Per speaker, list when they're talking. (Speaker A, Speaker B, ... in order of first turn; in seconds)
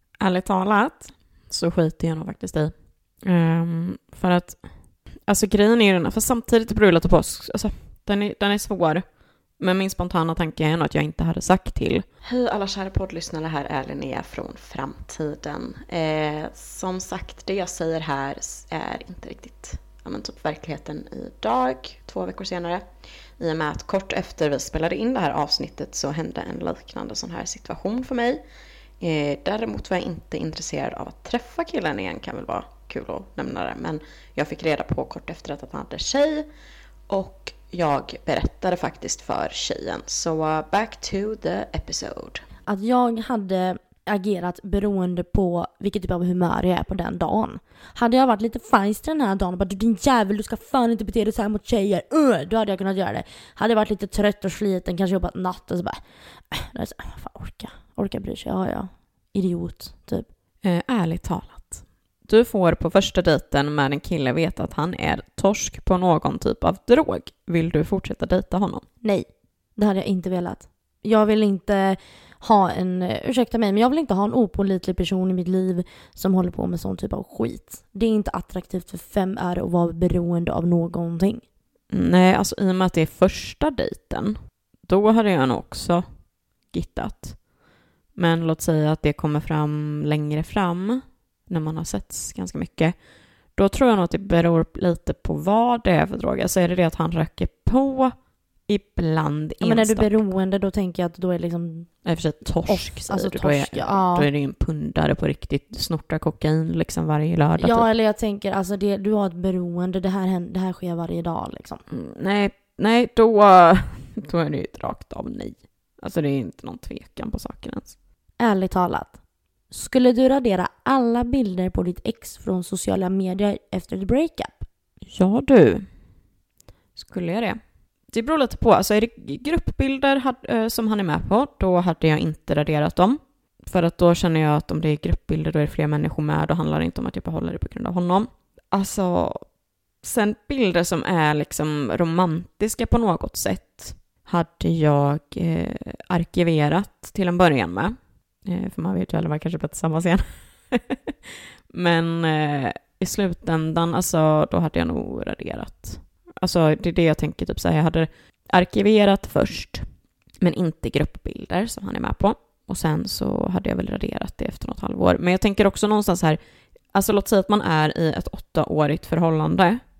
Speaker A: 0.2-22.8, 23.4-28.4, 29.0-36.5, 37.1-42.4, 60.6-68.8, 81.9-86.0, 86.7-87.4, 88.1-98.1, 98.7-100.1, 102.0-107.9, 111.9-117.9, 125.1-125.8, 127.0-127.6, 128.1-139.4, 140.0-159.9, 160.4-166.4, 166.9-169.8
Speaker B: 42.6-56.0, 56.5-60.3, 69.0-81.4, 99.6-102.0, 102.7-104.3, 107.6-111.8, 118.4-119.2, 119.7-124.6